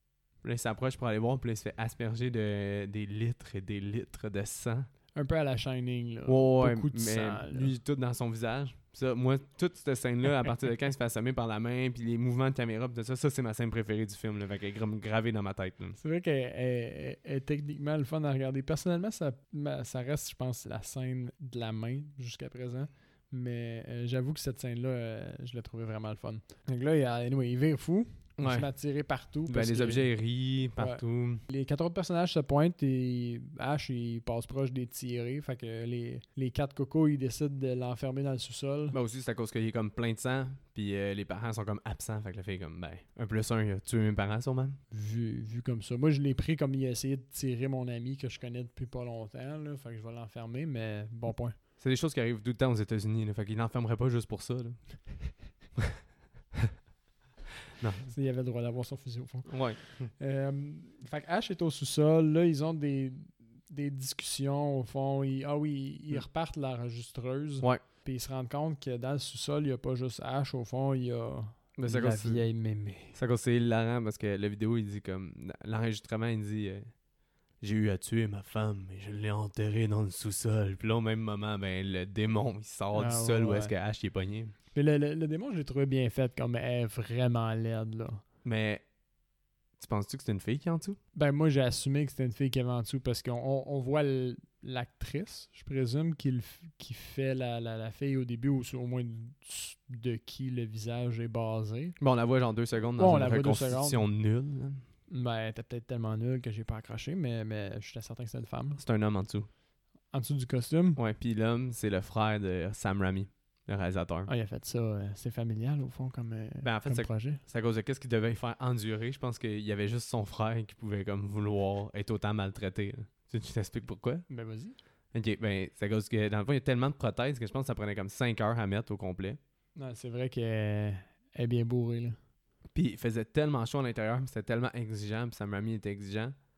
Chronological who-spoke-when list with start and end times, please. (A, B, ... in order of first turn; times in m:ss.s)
0:00.4-0:04.9 A
0:05.1-0:07.7 B
0:06.3-0:16.0 A
0:16.0-0:30.1 B
0:28.4-0:28.7 A
0:29.5-0:31.4 A
0:30.8-0:39.0 B
0:38.9-0:44.8 A
0:44.9-0:51.5 B
0:51.8-0:54.9 A
0:57.8-0:58.1 A
0:58.0-1:13.1 B
0:59.5-1:00.1 A
1:11.8-1:12.5 A
1:13.1-1:16.9 A
1:17.6-1:24.5 A
1:22.9-1:23.7 B
1:24.7-1:28.2 B
1:28.4-1:28.8 A
1:29.8-1:31.0 A
1:31.1-1:42.0 B
1:42.0-1:44.8 A
1:43.0-1:44.0 B
1:45.1-1:48.8 B
1:48.8-1:49.5 A
1:50.1-1:51.0 B
1:51.0-1:54.3 A
1:54.3-1:57.4 B
1:56.6-2:04.2 A
2:04.3-2:04.8 B
2:05.1-2:09.4 A
2:09.8-2:12.2 B
2:12.7-2:16.3 A